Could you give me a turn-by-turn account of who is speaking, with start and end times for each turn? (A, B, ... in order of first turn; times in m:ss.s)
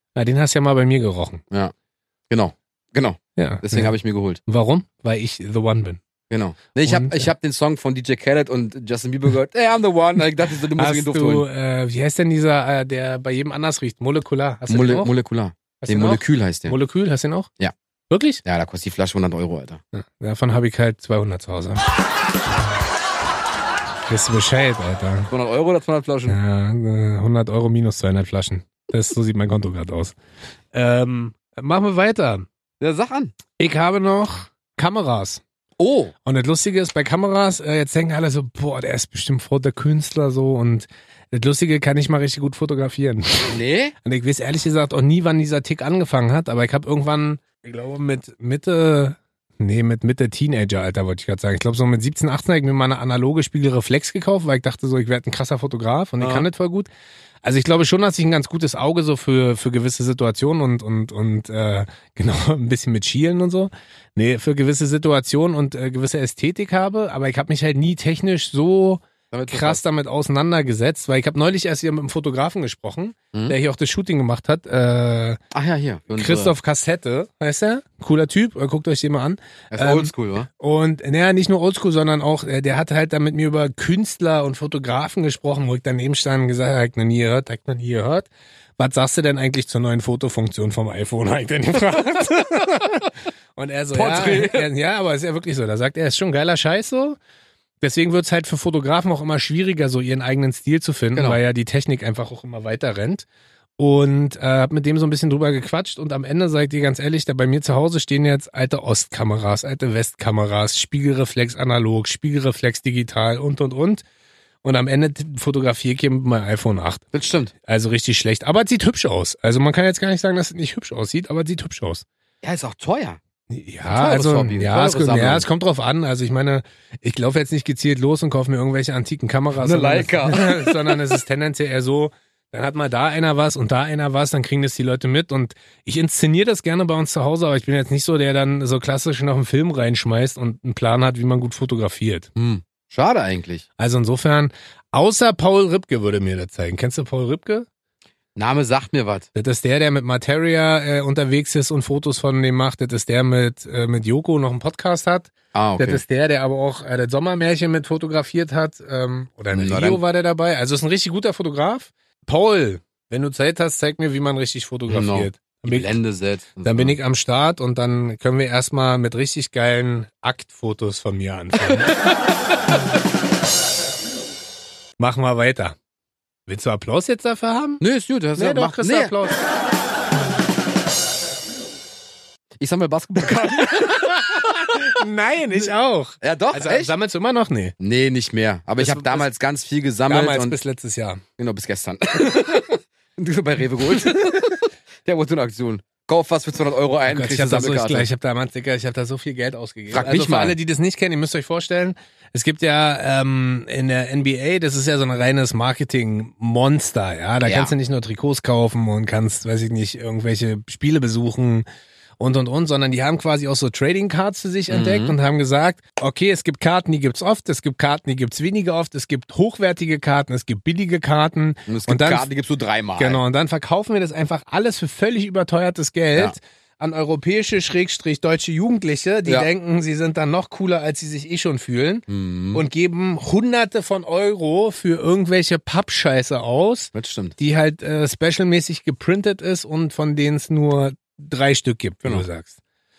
0:00.1-0:01.4 A
0:02.3-0:04.4 B
0:03.4-0:04.0 A
0:04.5-0:06.0 A
0:06.3-0:11.5 B
0:06.8-0:07.3 A
0:10.7-0:15.1 A
0:14.7-0:16.8 B
0:15.8-0:17.5 A
0:18.1-0:18.4 A
0:18.4-0:19.8 B
0:19.9-0:21.8 A
0:24.1-0:25.3 A
0:25.3-0:26.4 B
0:26.3-0:30.2 A
0:30.7-0:32.5 A
0:32.8-0:33.3 B
0:33.6-0:35.4 A
0:35.8-0:36.1 B
0:36.2-0:56.9 A
0:43.5-0:44.0 B
0:56.2-0:56.5 B
0:57.4-1:15.4 A
1:09.3-1:09.8 B
1:15.5-1:16.5 B
1:16.1-1:37.2 A
1:19.7-1:20.5 B
1:33.9-1:34.7 B
1:37.8-1:43.2 A
1:43.8-1:54.0 A
1:54.6-1:57.1 A
1:57.1-1:57.5 B
1:57.6-2:02.0 A
2:02.4-2:03.2 B
2:03.5-2:22.3 A
2:03.9-2:05.5 B
2:09.5-2:11.2 B
2:22.4-2:23.6 B
2:23.8-2:27.7 A
2:28.4-2:29.3 B
2:29.3-2:46.0 A
2:35.5-2:36.0 B
2:39.5-2:40.0 B
2:44.9-2:47.0 B
2:46.6-2:52.1 A
2:55.0-2:55.8 A
2:56.5-2:57.8 A
2:57.8-2:59.1 B
2:58.4-2:59.4 A
3:02.6-3:04.8 B
3:03.3-3:07.7 A
3:06.2-3:06.9 B
3:07.8-3:10.5 B
3:08.8-3:09.3 A
3:10.1-3:11.2 A
3:11.4-3:18.1 B
3:13.9-3:14.4 A
3:17.1-3:31.7 A
3:19.9-3:20.6 B
3:27.4-3:27.7 B
3:32.2-3:42.3 A
3:34.7-3:35.2 B
3:41.7-3:43.2 B
3:43.0-4:02.6 A
3:52.1-3:52.6 B
3:56.9-3:57.3 B